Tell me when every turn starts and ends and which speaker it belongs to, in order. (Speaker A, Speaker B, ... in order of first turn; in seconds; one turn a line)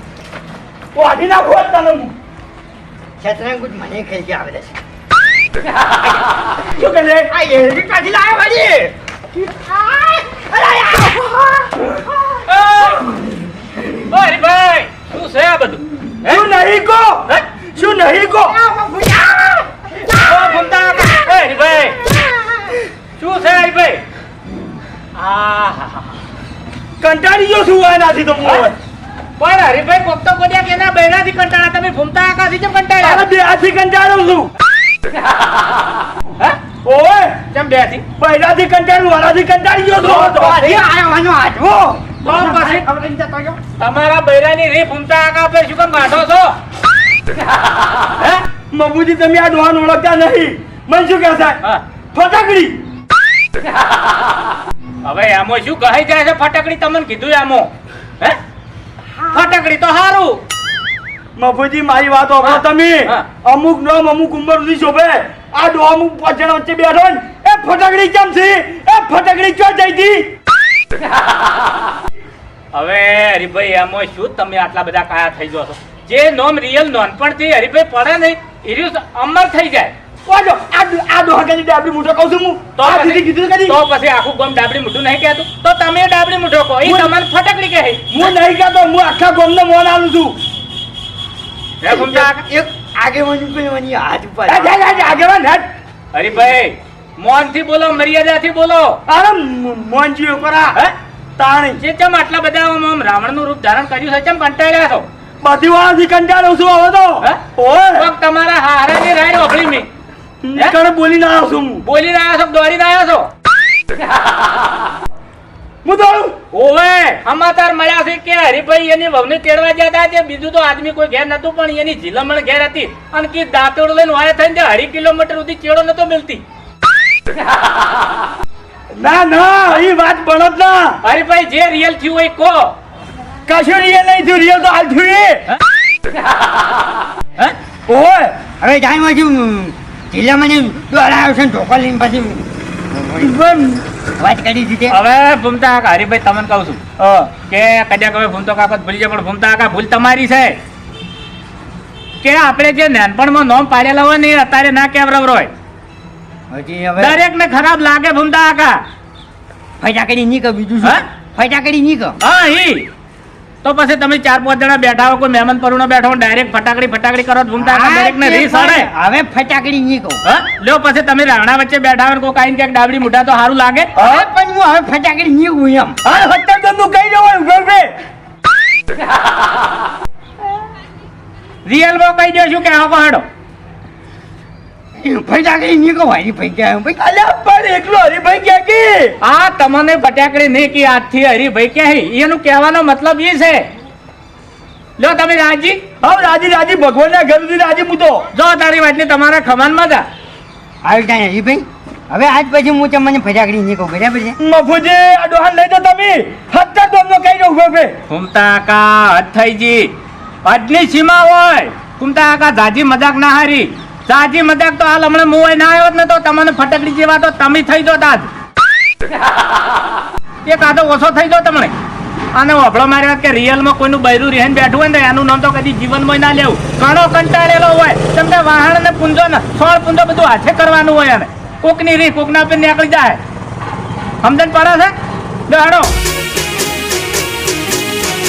Speaker A: 0.9-2.1
Speaker B: 3.2-4.8
Speaker A: 6.6-7.3
Speaker B: 7.3-8.9
Speaker B: 9.5-12.4
Speaker C: 12.5-13.1
Speaker C: 14.1-16.4
Speaker A: 16.2-18.6
Speaker B: 18.5-21.2
Speaker C: 20.2-22.0
Speaker C: 23.2-24.0
Speaker C: 25.1-26.1
Speaker A: 27.0-28.7
Speaker C: 29.4-33.2
Speaker A: 33.0-34.5
Speaker A: 36.8-37.4
Speaker C: 37.5-38.0
Speaker A: 38.2-40.8
Speaker B: 40.0-43.6
Speaker C: 42.2-42.9
Speaker C: 43.8-46.5
Speaker A: 48.2-51.6
Speaker A: 52.1-52.8
Speaker C: 55.0-57.7
Speaker C: 59.3-60.4
Speaker A: 61.4-70.3
Speaker C: 62.4-63.2
Speaker C: 72.7-79.9
Speaker A: 80.3-83.8
Speaker C: 82.8-88.0
Speaker A: 86.8-87.1
Speaker A: 88.1-90.4
Speaker C: 91.8-92.4
Speaker B: 91.8-94.8
Speaker A: 94.5-95.7
Speaker C: 96.1-99.0
Speaker A: 99.1-100.8
Speaker A: 101.4-101.8
Speaker C: 101.8-105.0
Speaker A: 105.4-108.1
Speaker C: 108.0-109.9
Speaker A: 110.4-111.8
Speaker C: 111.8-113.3
Speaker A: 115.8-116.4
Speaker C: 116.5-126.4
Speaker A: 128.9-131.0
Speaker C: 131.0-132.7
Speaker A: 133.5-135.4
Speaker A: 137.9-138.3
Speaker B: 138.6-143.3
Speaker A: 143.2-143.8
Speaker B: 144.2-145.0
Speaker C: 144.9-146.8
Speaker A: 147.0-147.3
Speaker C: 147.4-150.6
Speaker C: 152.2-155.5
Speaker B: 156.5-157.2
Speaker C: 157.0-158.8
Speaker B: 159.8-162.2
Speaker C: 162.2-162.9
Speaker C: 163.6-168.9
Speaker B: 167.6-170.2
Speaker C: 170.2-174.1
Speaker B: 173.9-176.0
Speaker A: 176.0-177.9
Speaker C: 181.7-183.2
Speaker B: 185.0-187.0
Speaker A: 187.0-189.1
Speaker C: 189.2-193.7
Speaker C: 195.0-195.8
Speaker A: 196.0-198.2
Speaker C: 198.3-200.1
Speaker B: 200.8-204.4
Speaker A: 204.4-207.9
Speaker C: 208.1-209.9
Speaker C: 210.4-218.3
Speaker C: 220.4-221.7
Speaker C: 222.3-233.2
Speaker C: 234.2-234.9
Speaker C: 235.5-235.9